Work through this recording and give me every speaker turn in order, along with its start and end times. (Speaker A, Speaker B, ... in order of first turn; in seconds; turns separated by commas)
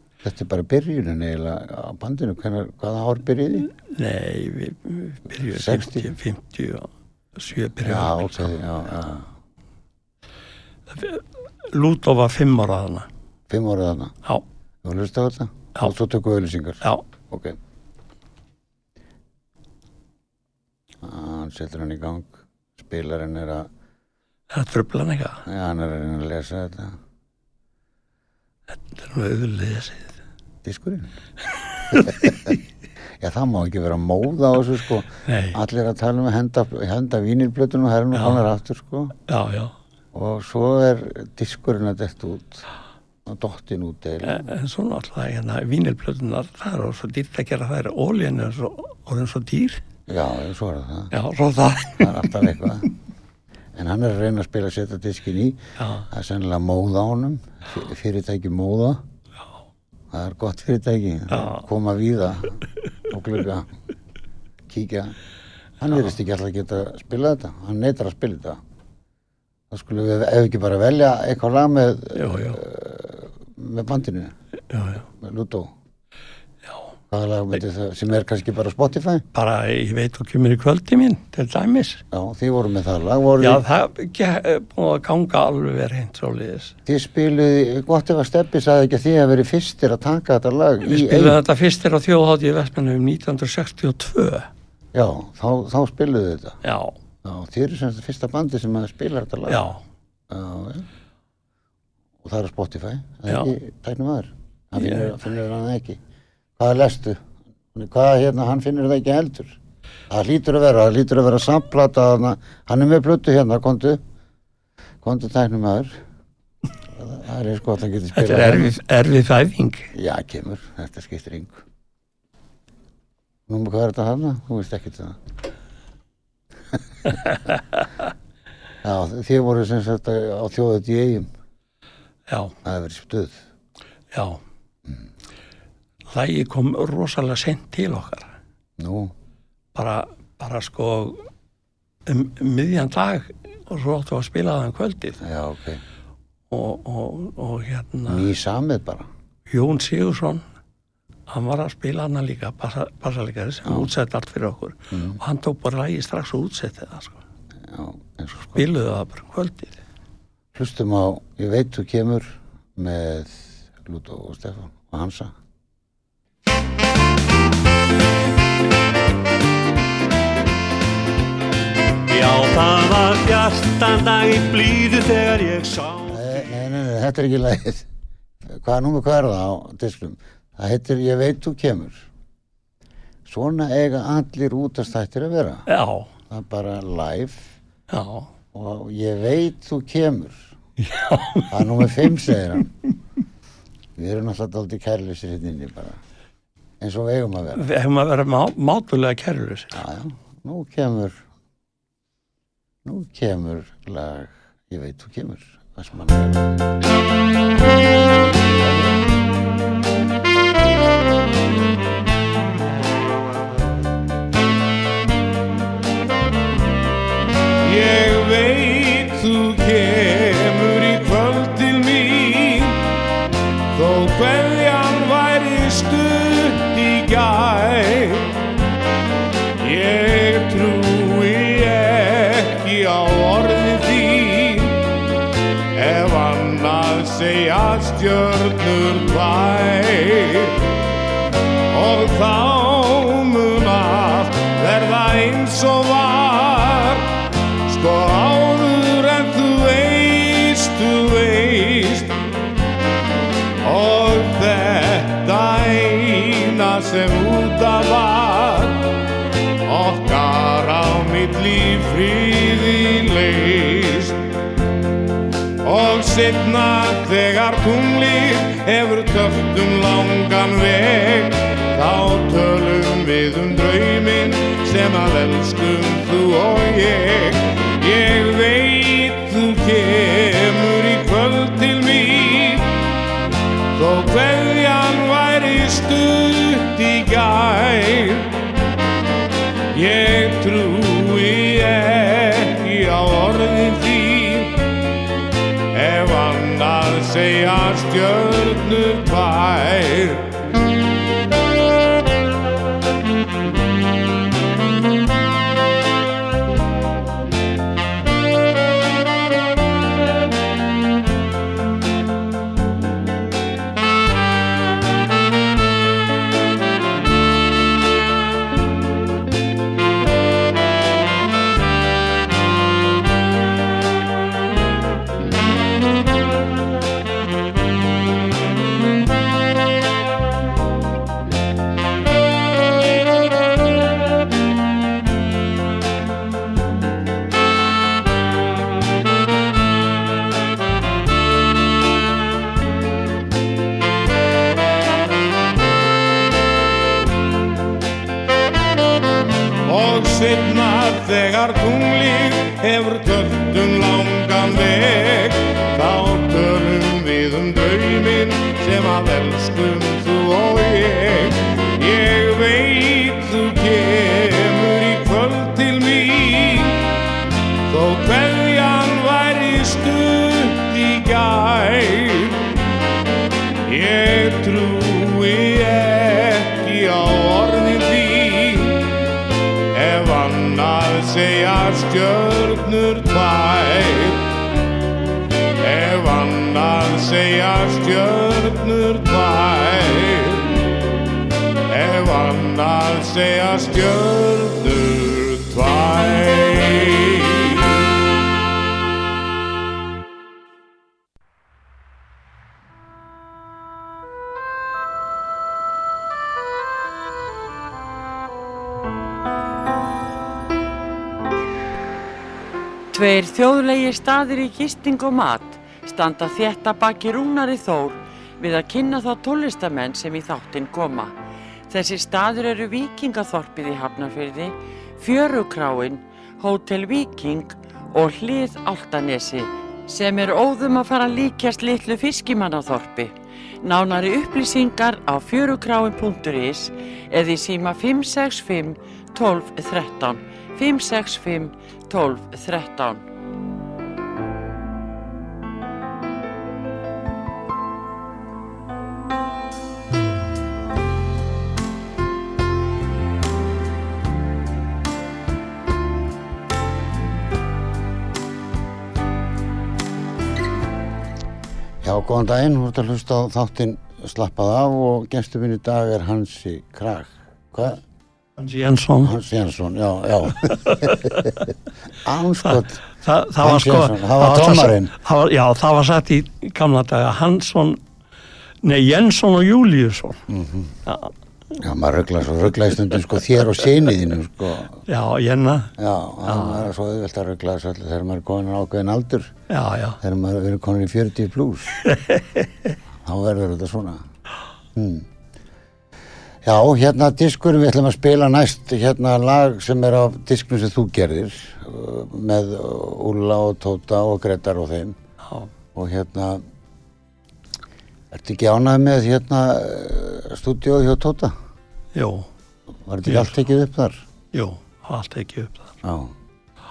Speaker A: 0.2-3.7, Speaker B: 3.7-8.6, Speaker A: 5.5-6.1, Speaker A: 7.8-9.3, Speaker B: 10.9-13.1, Speaker A: 13.5-14.2, Speaker A: 14.8-17.6, Speaker A: 21.0-23.7, Speaker B: 24.5-25.4, Speaker A: 25.4-27.0, Speaker B: 28.8-30.1, Speaker A: 30.6-31.1, Speaker B: 31.8-32.4, Speaker A: 31.9-32.5, Speaker A: 33.2-39.1, Speaker B: 35.2-35.6, Speaker B: 38.1-38.4, Speaker B: 39.3-39.7, Speaker A: 40.1-42.6, Speaker A: 43.2-44.4, Speaker B: 44.2-49.8, Speaker A: 50.1-51.1, Speaker B: 51.1-52.3, Speaker A: 52.0-52.9, Speaker A: 53.7-59.0, Speaker B: 55.8-56.1, Speaker A: 60.1-63.7, Speaker B: 61.3-61.6, Speaker A: 64.7-65.1, Speaker A: 65.8-68.6, Speaker A: 69.7-74.3, Speaker B: 72.1-72.6, Speaker B: 74.7-75.0, Speaker A: 75.0-75.7, Speaker A: 77.1-79.2, Speaker B: 79.3-82.0, Speaker A: 82.1-83.6, Speaker B: 83.4-86.7, Speaker A: 86.8-91.4, Speaker B: 90.8-94.5, Speaker A: 94.9-96.6, Speaker B: 96.6-97.0, Speaker A: 97.2-99.7, Speaker B: 99.5-99.8, Speaker A: 100.3-100.9, Speaker A: 102.2-106.0, Speaker B: 103.3-103.5, Speaker B: 104.8-105.1, Speaker A: 106.6-107.2, Speaker A: 107.7-109.6, Speaker A: 110.1-114.0, Speaker A: 115.0-116.0, Speaker A: 116.9-118.8, Speaker B: 118.2-119.9, Speaker A: 119.9-121.6, Speaker A: 123.5-125.2, Speaker A: 128.8-131.3, Speaker B: 132.3-132.6, Speaker A: 132.6-133.4, Speaker B: 134.1-134.4, Speaker B: 136.1-138.3, Speaker A: 138.8-139.1, Speaker B: 139.7-141.2, Speaker B: 142.1-145.2, Speaker A: 145.2-145.8, Speaker B: 146.5-148.3, Speaker A: 148.1-149.1, Speaker B: 149.5-150.4, Speaker B: 151.3-157.2, Speaker A: 154.9-155.2, Speaker A: 157.7-158.7, Speaker B: 158.6-159.8, Speaker A: 160.5-165.3, Speaker C: 172.1-176.2, Speaker A: 176.1-177.8, Speaker A: 178.4-182.1, Speaker A: 183.2-185.7, Speaker B: 185.7-186.1, Speaker A: 186.3-187.5, Speaker B: 187.9-188.3, Speaker A: 188.5-190.5, Speaker B: 190.8-191.8, Speaker A: 191.5-192.7, Speaker A: 194.0-196.0, Speaker A: 196.8-197.6, Speaker B: 197.5-199.8, Speaker A: 199.7-201.2, Speaker A: 202.8-206.7, Speaker A: 208.3-209.1, Speaker D: 217.6-222.9, Speaker D: 223.7-228.3, Speaker D: 229.6-234.9, Speaker D: 235.7-240.7, Speaker D: 241.7-252.2, Speaker D: 253.6-258.9, Speaker D: 259.6-264.2, Speaker D: 265.6-282.9, Speaker D: 283.8-288.3, Speaker D: 289.7-294.6, Speaker D: 295.7-300.3, Speaker D: 349.6-367.0, Speaker D: 367.7-372.5, Speaker D: 373.6-378.9, Speaker D: 379.7-384.3, Speaker D: 385.6-390.7, Speaker D: 391.7-397.9, Speaker E: 412.9-421.1, Speaker E: 421.7-443.0, Speaker A: 461.8-467.8, Speaker B: 468.4-469.1, Speaker A: 469.0-471.5, Speaker B: 470.6-471.2, Speaker A: 472.0-472.8, Speaker B: 472.4-477.8, Speaker A: 473.4-474.9, Speaker B: 478.6-480.2, Speaker A: 480.3-480.7, Speaker B: 480.9-481.1, Speaker A: 481.6-484.8, Speaker B: 484.9-486.7, Speaker A: 485.8-489.3, Speaker B: 489.5-490.0, Speaker A: 490.0-491.8, Speaker B: 491.8-492.7, Speaker A: 493.0-494.0, Speaker A: 494.7-495.1, Speaker A: 496.4-505.0, Speaker B: 505.2-505.5, Speaker A: 505.7-506.4, Speaker A: 508.1-511.3, Speaker B: 511.9-512.3, Speaker A: 512.9-514.0, Speaker B: 513.0-513.3, Speaker B: 514.3-515.7, Speaker A: 515.8-516.1